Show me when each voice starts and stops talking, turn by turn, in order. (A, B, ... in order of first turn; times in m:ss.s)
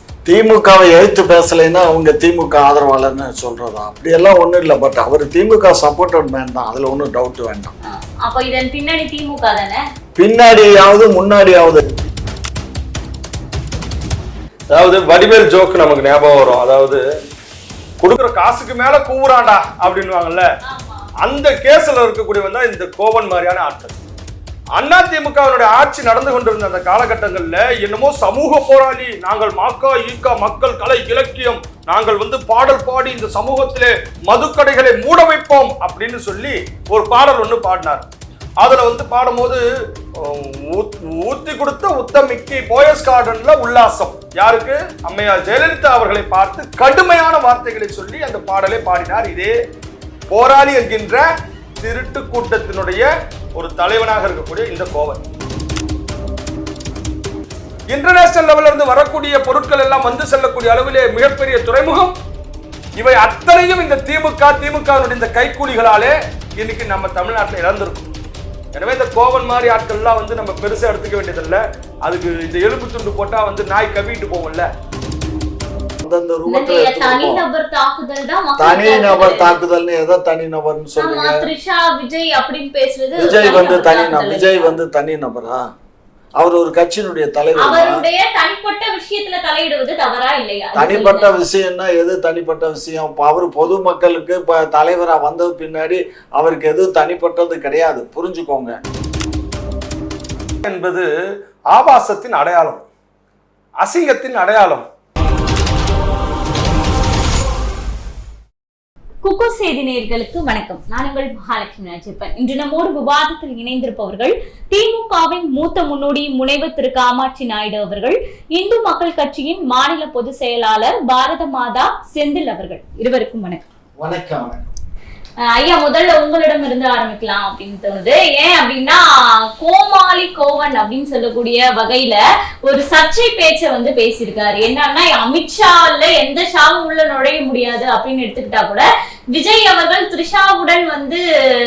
0:00.3-0:07.7 A
0:07.9-0:09.8 B
0:10.2-0:12.1 A
0:14.7-0:17.0 C
0:18.0-0:20.5 C
0:20.6-0:21.1 B
0:21.2-0:24.0 C
0:24.8-0:38.1 C
0:38.6-0:49.5 C
0:50.3-0:55.2 C
0:57.9-1:02.2 C
1:03.0-1:08.1 C
1:08.7-1:14.7 C
1:16.0-1:17.4 A
1:16.5-1:19.6 B
1:18.6-1:21.5 A
1:21.0-1:24.7 B
1:23.2-1:25.6 A
1:26.4-1:28.0 A
1:27.6-1:31.3 B
1:30.8-1:38.8 A
1:40.6-1:41.1 C
1:41.7-1:42.9 C
1:43.8-1:44.9 C
1:49.2-2:03.6 B
2:04.0-2:04.6 A
2:05.6-2:09.0 B
2:09.6-2:21.2 B